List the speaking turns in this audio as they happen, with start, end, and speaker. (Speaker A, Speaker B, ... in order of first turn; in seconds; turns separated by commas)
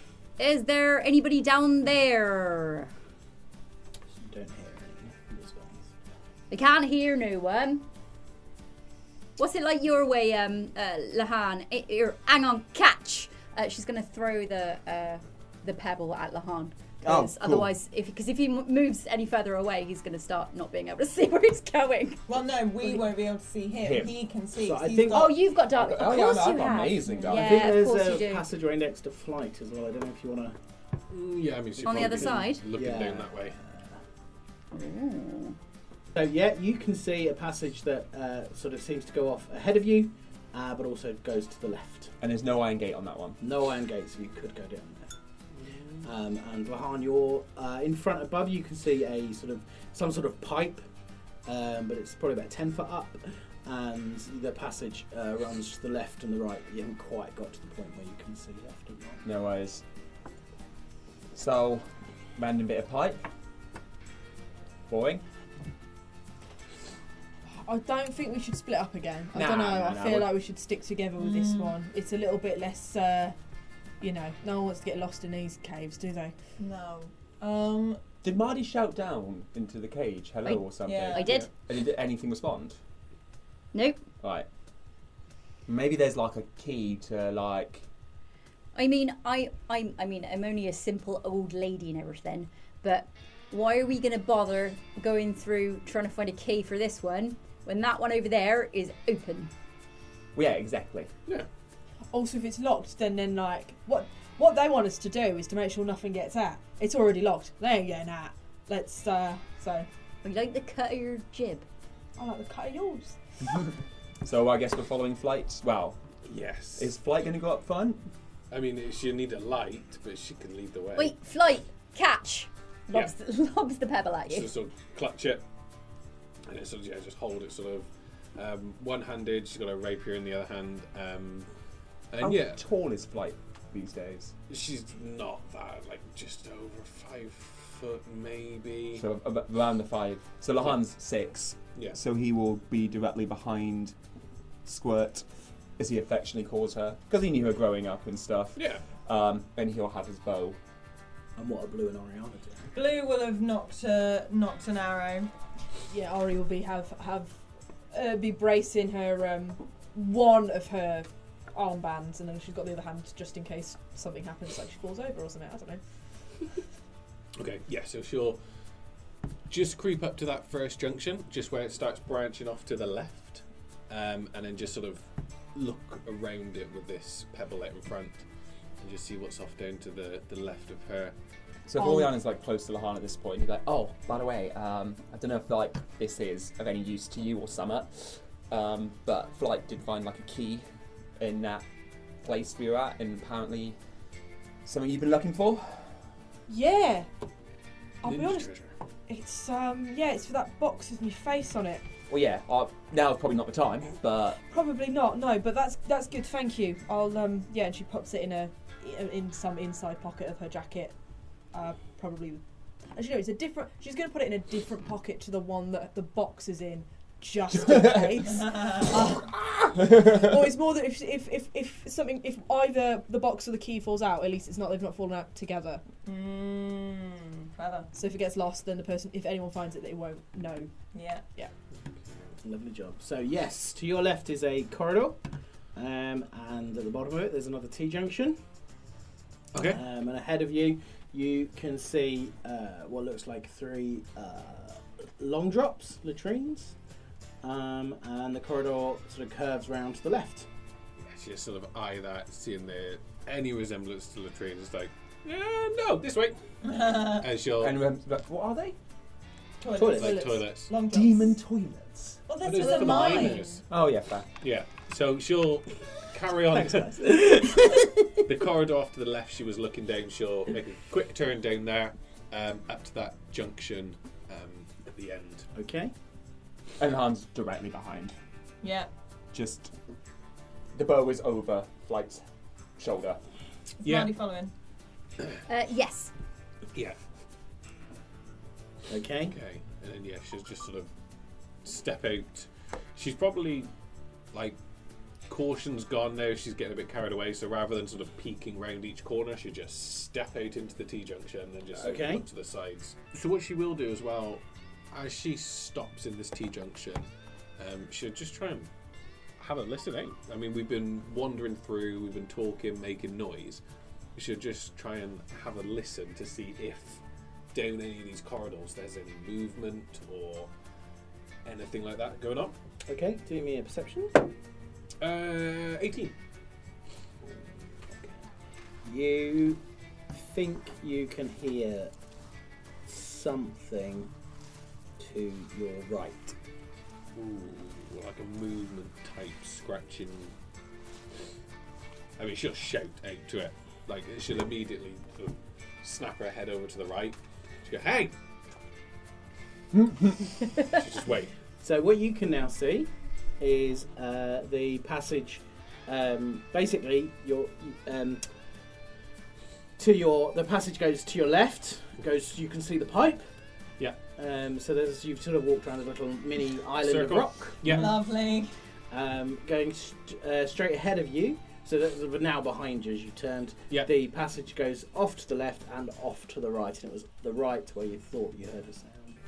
Speaker A: 0.4-2.9, Speaker B: 4.2-5.9, Speaker A: 6.5-7.9, Speaker A: 9.4-23.0, Speaker C: 17.0-17.7, Speaker D: 22.3-25.4, Speaker C: 23.8-24.1, Speaker B: 24.6-25.3, Speaker A: 25.1-28.5, Speaker C: 25.8-27.7, Speaker B: 27.3-30.6, Speaker E: 31.1-33.6, Speaker A: 31.8-32.7, Speaker B: 31.9-34.0, Speaker A: 34.7-35.6, Speaker B: 36.1-42.1, Speaker C: 42.2-43.4, Speaker B: 43.4-45.1, Speaker E: 45.6-46.0, Speaker B: 46.0-50.9, Speaker B: 51.5-59.2, Speaker C: 59.2-59.8, Speaker C: 61.3-63.2, Speaker C: 64.9-65.2, Speaker F: 67.7-73.3, Speaker C: 69.3-70.3, Speaker D: 71.2-71.8, Speaker F: 74.0-76.3, Speaker D: 76.6-78.0, Speaker C: 78.2-82.8, Speaker A: 80.5-81.5, Speaker D: 80.8-81.2, Speaker A: 83.7-84.1, Speaker C: 84.2-84.5, Speaker C: 85.7-87.9, Speaker A: 88.8-99.5, Speaker C: 100.3-101.1, Speaker F: 102.1-109.9, Speaker A: 110.2-111.7, Speaker F: 112.2-113.2, Speaker C: 114.2-116.0, Speaker E: 116.2-116.9, Speaker C: 116.8-118.1, Speaker E: 118.5-121.1, Speaker A: 121.0-124.5, Speaker E: 124.3-125.4, Speaker E: 126.5-131.5, Speaker E: 132.1-132.6, Speaker C: 132.2-134.3, Speaker E: 134.5-139.1, Speaker C: 138.9-144.0, Speaker C: 144.7-145.3, Speaker C: 145.8-150.6, Speaker E: 148.6-148.8, Speaker B: 151.4-152.7, Speaker D: 152.7-155.3, Speaker F: 155.9-157.4, Speaker F: 157.9-165.8, Speaker E: 167.4-168.4, Speaker E: 169.5-175.0, Speaker E: 175.6-178.2, Speaker E: 178.8-181.2, Speaker C: 181.7-190.7, Speaker F: 181.8-182.1, Speaker C: 191.2-191.7, Speaker C: 192.2-193.8, Speaker C: 194.6-196.0, Speaker F: 196.5-197.1, Speaker F: 198.0-198.5, Speaker E: 198.1-198.7, Speaker F: 199.1-201.8, Speaker C: 202.1-204.4, Speaker F: 204.5-210.9, Speaker F: 211.5-212.4, Speaker F: 212.9-225.8, Speaker C: 217.7-218.0, Speaker D: 218.3-218.9, Speaker D: 226.1-227.9, Speaker F: 227.9-230.7, Speaker D: 230.9-231.2, Speaker E: 231.9-232.3, Speaker B: 232.4-235.2, Speaker B: 235.7-238.4, Speaker E: 239.5-239.8, Speaker B: 239.6-246.8, Speaker B: 247.4-250.5, Speaker E: 251.0-256.4, Speaker D: 256.6-257.3, Speaker E: 257.0-257.8, Speaker C: 257.6-258.8, Speaker D: 259.6-261.4, Speaker B: 259.7-260.3, Speaker E: 260.0-260.7, Speaker C: 260.9-262.2, Speaker D: 262.3-263.6, Speaker E: 262.4-263.6, Speaker B: 262.6-263.4, Speaker C: 263.7-264.3, Speaker E: 264.4-267.2, Speaker B: 266.5-268.2, Speaker E: 268.2-275.5, Speaker B: 275.6-275.9, Speaker C: 276.8-278.1, Speaker D: 278.6-278.9, Speaker C: 279.3-279.7, Speaker C: 280.7-282.2, Speaker C: 282.8-283.2, Speaker D: 283.8-284.5, Speaker E: 283.8-284.1, Speaker A: 285.5-286.1, Speaker B: 288.9-289.4, Speaker E: 289.3-290.9, Speaker E: 291.6-293.7, Speaker E: 295.3-307.1, Speaker B: 301.8-302.2, Speaker E: 307.6-308.7, Speaker E: 309.4-313.6, Speaker E: 314.1-317.0, Speaker E: 317.5-320.5, Speaker E: 321.4-322.6, Speaker B: 322.9-324.2, Speaker E: 325.0-326.1, Speaker B: 327.3-328.2, Speaker B: 328.9-331.9, Speaker B: 332.9-334.1, Speaker B: 335.0-336.4, Speaker E: 337.1-340.4, Speaker E: 342.2-348.1, Speaker C: 349.7-350.2, Speaker E: 350.6-351.3, Speaker B: 351.6-358.2, Speaker B: 359.8-363.2, Speaker B: 364.2-367.9, Speaker E: 366.8-367.9, Speaker D: 367.7-368.5, Speaker B: 368.9-379.2